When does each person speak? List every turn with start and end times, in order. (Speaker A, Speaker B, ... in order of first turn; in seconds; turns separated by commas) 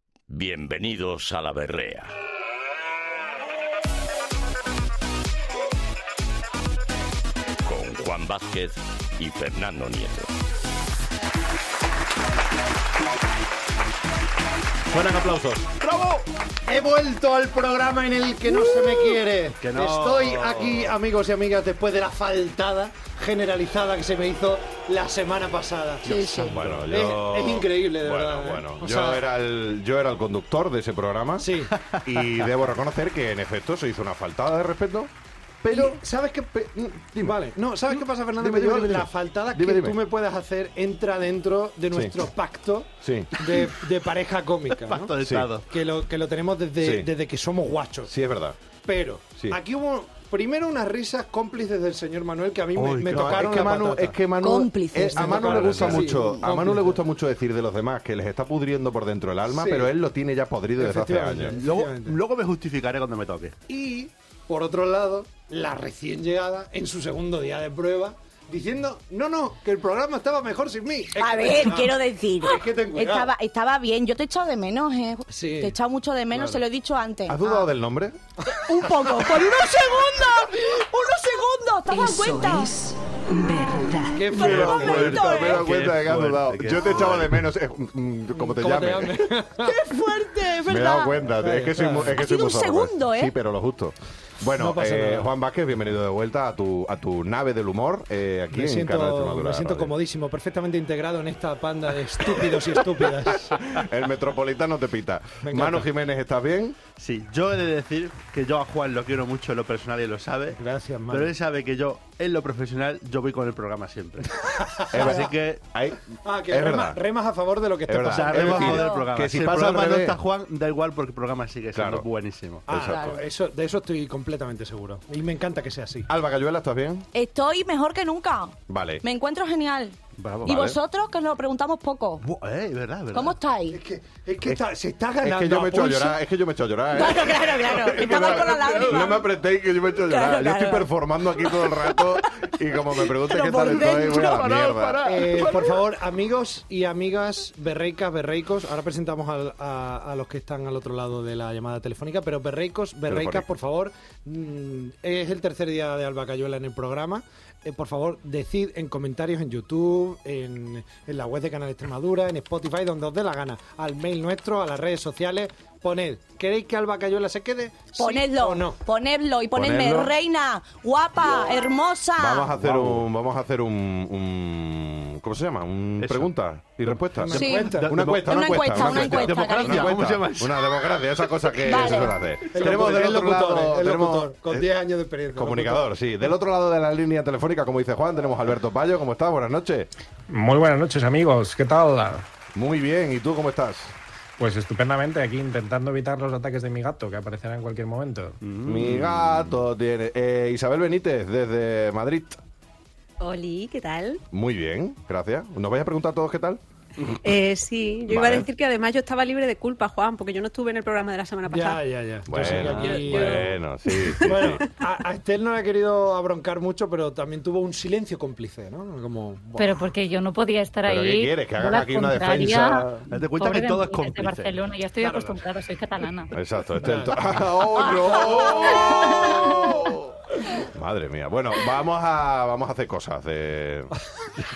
Speaker A: 0.3-2.1, Speaker A: 7.6-10.3, Speaker B: 14.9-15.7, Speaker C: 15.7-16.3, Speaker D: 16.7-29.2, Speaker C: 19.6-20.9, Speaker E: 26.0-26.6, Speaker B: 26.4-35.1, Speaker C: 26.6-26.9, Speaker D: 31.4-31.7, Speaker C: 31.8-32.5, Speaker B: 35.6-36.0, Speaker D: 35.7-45.1, Speaker B: 36.6-37.4, Speaker B: 38.4-40.0, Speaker B: 43.0-43.3, Speaker C: 44.8-45.7, Speaker B: 45.2-45.5, Speaker D: 45.7-48.1, Speaker B: 46.8-47.1, Speaker B: 48.1-48.6, Speaker D: 48.8-54.2, Speaker C: 52.8-54.0, Speaker B: 53.1-61.6, Speaker E: 54.4-56.5, Speaker D: 55.1-57.0, Speaker C: 55.6-56.0, Speaker D: 59.5-59.9, Speaker D: 60.8-62.2, Speaker C: 61.6-63.6, Speaker D: 63.7-73.3, Speaker E: 71.2-77.5, Speaker D: 75.3-75.8, Speaker D: 76.3-76.6, Speaker B: 77.3-78.2, Speaker E: 78.5-82.7, Speaker D: 78.7-79.5, Speaker F: 81.9-84.3, Speaker E: 83.6-85.6, Speaker D: 84.1-85.5, Speaker C: 84.3-87.4, Speaker B: 84.4-89.3, Speaker D: 88.3-89.8, Speaker E: 89.6-91.3, Speaker B: 90.7-99.9, Speaker D: 91.3-92.2, Speaker E: 92.1-93.4, Speaker D: 94.6-95.3, Speaker D: 98.5-103.6, Speaker B: 103.5-106.8, Speaker D: 105.4-105.9, Speaker C: 107.0-115.6, Speaker D: 110.5-111.3, Speaker D: 114.5-115.3, Speaker B: 114.9-117.0, Speaker D: 116.2-118.9, Speaker B: 117.9-120.2, Speaker C: 118.1-122.8, Speaker E: 118.6-119.1, Speaker B: 121.7-122.1, Speaker D: 122.7-126.1, Speaker B: 122.7-123.2, Speaker B: 126.1-127.1, Speaker E: 127.1-132.3, Speaker B: 128.7-129.0, Speaker C: 130.2-130.6, Speaker B: 130.5-130.8, Speaker C: 132.2-133.3, Speaker E: 133.1-133.8, Speaker D: 133.7-136.2, Speaker B: 135.2-145.0, Speaker E: 136.9-139.3, Speaker C: 137.8-139.2, Speaker E: 139.9-142.2, Speaker E: 143.0-144.5, Speaker C: 143.3-145.8, Speaker D: 145.0-168.8, Speaker B: 153.1-153.5, Speaker E: 168.0-172.5, Speaker B: 169.5-170.1, Speaker B: 172.2-184.7, Speaker C: 172.6-173.0, Speaker C: 176.0-176.3, Speaker D: 177.2-177.9, Speaker E: 177.3-180.0, Speaker C: 177.4-182.9, Speaker E: 181.6-182.2, Speaker D: 182.5-185.9, Speaker B: 185.3-189.9, Speaker G: 190.3-192.2, Speaker B: 192.6-193.9, Speaker G: 194.4-198.4, Speaker C: 198.4-199.6, Speaker B: 198.7-202.4, Speaker H: 203.2-204.2, Speaker B: 204.3-206.6, Speaker H: 207.2-211.8, Speaker B: 208.1-208.5, Speaker D: 211.5-213.6, Speaker B: 212.3-214.6, Speaker C: 212.3-213.5, Speaker H: 212.7-213.4, Speaker D: 214.2-219.9, Speaker I: 219.6-226.3, Speaker B: 220.8-223.0, Speaker C: 223.1-224.6, Speaker D: 225.0-225.4, Speaker B: 226.3-233.9, Speaker D: 226.8-227.2, Speaker I: 228.9-229.5